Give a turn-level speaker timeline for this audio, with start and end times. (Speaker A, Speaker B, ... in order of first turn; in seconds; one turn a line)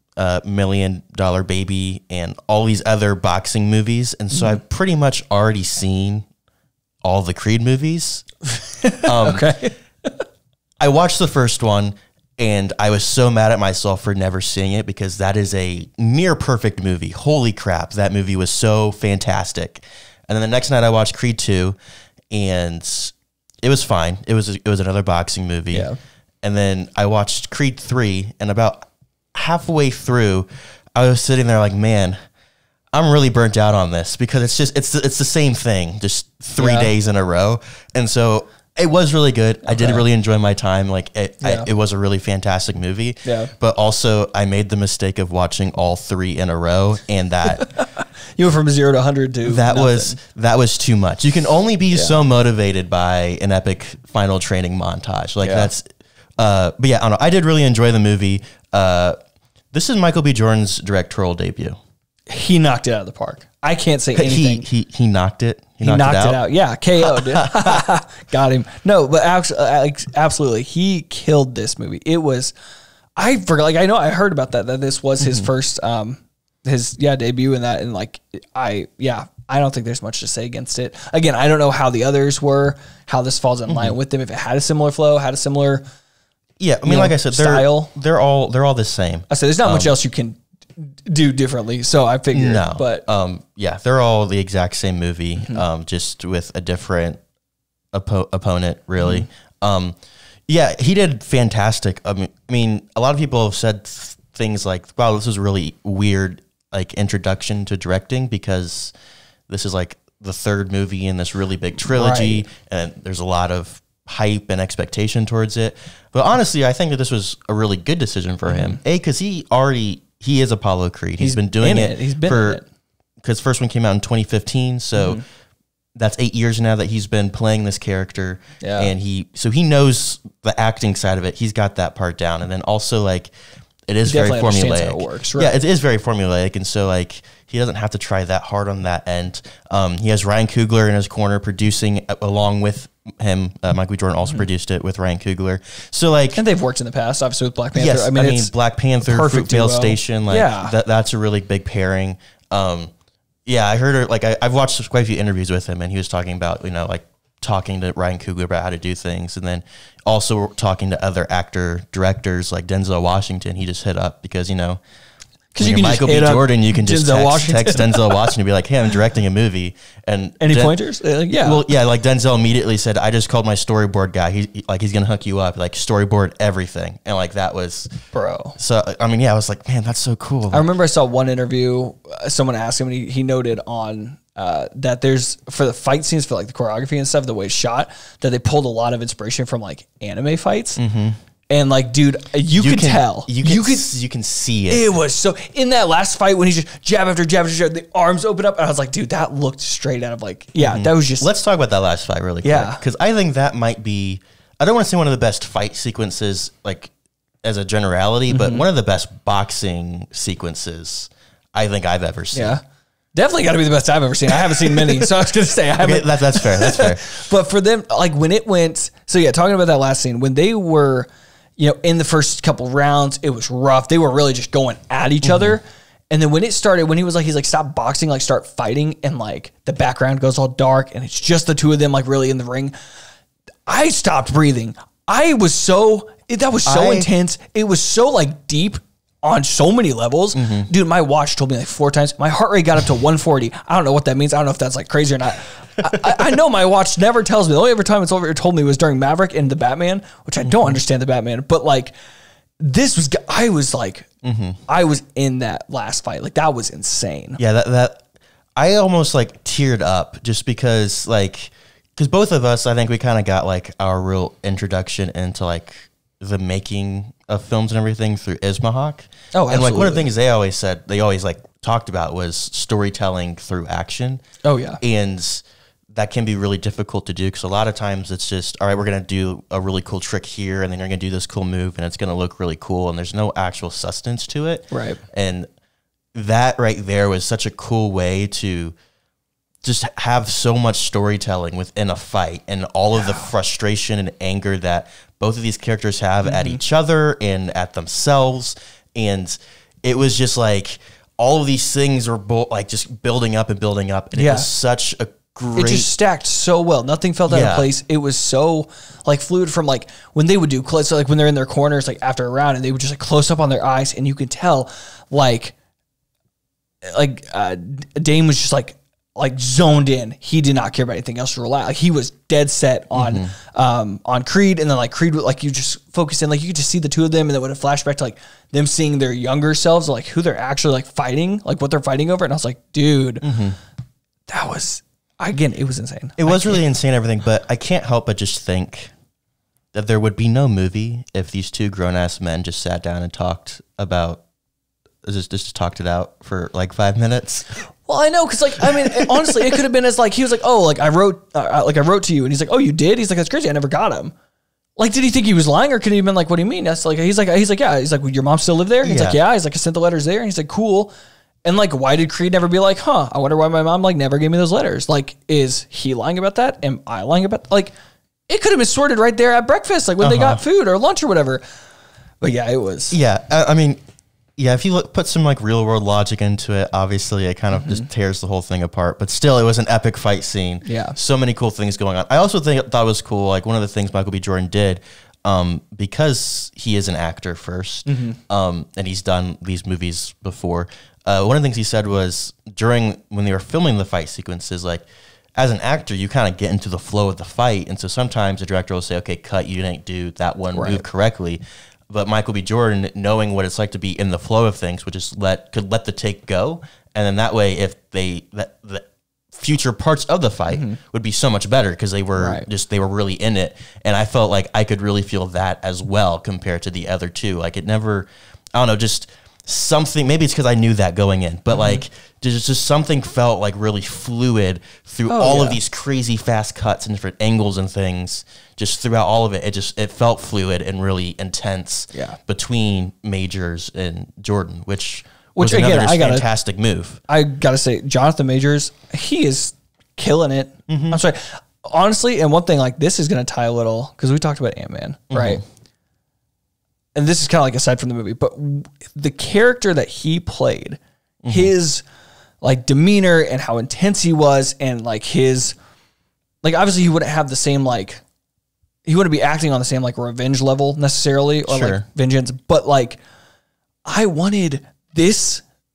Speaker A: 0.1-6.2
Speaker B: 4.3-4.6
Speaker A: 7.0-8.2
Speaker B: 8.6-10.2
Speaker A: 9.0-9.4
Speaker A: 10.8-21.8
Speaker A: 22.3-25.9
Speaker B: 25.7-26.0
Speaker A: 26.4-32.2
Speaker A: 32.9-47.7
Speaker B: 36.6-36.9
Speaker B: 39.7-40.0
Speaker B: 41.4-41.7
Speaker B: 43.2-43.5
Speaker B: 47.5-50.2
Speaker A: 49.4-55.9
Speaker B: 55.4-55.7
Speaker A: 56.4-59.2
Speaker A: 59.7-61.8
Speaker B: 62.3-64.6
Speaker A: 64.1-66.4
Speaker B: 65.8-72.5
Speaker A: 67.0-67.8
Speaker B: 73.2-85.8
Speaker A: 75.2-75.5
Speaker A: 83.7-83.9
Speaker A: 86.6-89.9
Speaker B: 86.8-87.9
Speaker B: 89.3-93.0
Speaker A: 92.3-97.2
Speaker A: 97.9-100.0
Speaker B: 99.0-99.3
Speaker A: 100.5-108.9
Speaker A: 109.5-122.6
Speaker B: 111.9-112.5
Speaker B: 118.5-118.8
Speaker B: 121.2-122.6
Speaker A: 123.2-125.2
Speaker B: 125.0-125.2
Speaker A: 125.9-133.3
Speaker B: 128.6-128.9
Speaker A: 133.9-146.4
Speaker B: 134.0-135.5
Speaker B: 146.3-148.5
Speaker A: 147.7-152.9
Speaker B: 149.0-150.7
Speaker A: 153.4-164.8
Speaker B: 165.5-168.3
Speaker A: 165.6-170.8
Speaker B: 170.4-171.6
Speaker A: 171.3-177.9
Speaker B: 178.1-178.6
Speaker A: 178.6-180.7
Speaker B: 180.5-190.8
Speaker A: 190.8-191.2
Speaker B: 191.5-193.9
Speaker A: 192.5-194.8
Speaker B: 194.7-201.3
Speaker A: 200.6-206.9
Speaker B: 202.4-202.8
Speaker A: 207.4-212.6
Speaker B: 208.3-208.6
Speaker B: 212.3-212.6
Speaker B: 213.1-232.7
Speaker A: 214.6-215.0
Speaker A: 215.8-217.2
Speaker A: 225.2-225.6
Speaker B: 233.7-251.9
Speaker A: 236.6-237.1
Speaker A: 240.3-240.7
Speaker A: 245.9-246.2
Speaker A: 250.4-250.8
Speaker B: 252.6-254.1
Speaker A: 254.2-254.6
Speaker B: 254.7-257.4
Speaker A: 257.4-258.0
Speaker A: 258.6-274.2
Speaker B: 269.3-270.1
Speaker B: 274.4-274.8
Speaker A: 274.8-285.5
Speaker B: 284.7-285.0
Speaker A: 286.1-288.7
Speaker A: 289.6-305.9
Speaker B: 293.0-293.3
Speaker B: 296.2-296.6
Speaker B: 304.1-304.5
Speaker B: 305.5-315.5
Speaker A: 307.3-307.7
Speaker B: 316.8-333.3
Speaker A: 322.9-323.3
Speaker A: 333.2-333.6
Speaker B: 334.3-336.6
Speaker A: 336.2-338.9
Speaker A: 339.7-344.2
Speaker A: 345.0-347.5
Speaker B: 347.9-354.1
Speaker A: 348.6-349.6
Speaker B: 354.8-360.9
Speaker A: 358.8-359.2
Speaker B: 361.4-367.7
Speaker B: 368.3-371.4
Speaker A: 370.0-370.4
Speaker B: 372.2-373.0
Speaker A: 372.9-373.8
Speaker A: 374.4-394.8
Speaker B: 377.5-377.9
Speaker B: 380.6-381.0
Speaker B: 387.9-388.2
Speaker A: 395.4-437.0
Speaker B: 400.5-400.8
Speaker B: 410.5-410.8
Speaker B: 412.2-412.5
Speaker B: 421.5-421.8
Speaker B: 425.1-425.6
Speaker B: 431.9-432.2
Speaker B: 435.4-436.2
Speaker B: 437.1-445.4
Speaker A: 440.7-441.0
Speaker A: 445.1-445.4
Speaker B: 446.9-451.8
Speaker A: 451.2-451.5
Speaker B: 452.4-455.5
Speaker B: 456.4-458.0
Speaker B: 458.8-463.0
Speaker A: 461.5-461.8
Speaker B: 463.8-465.4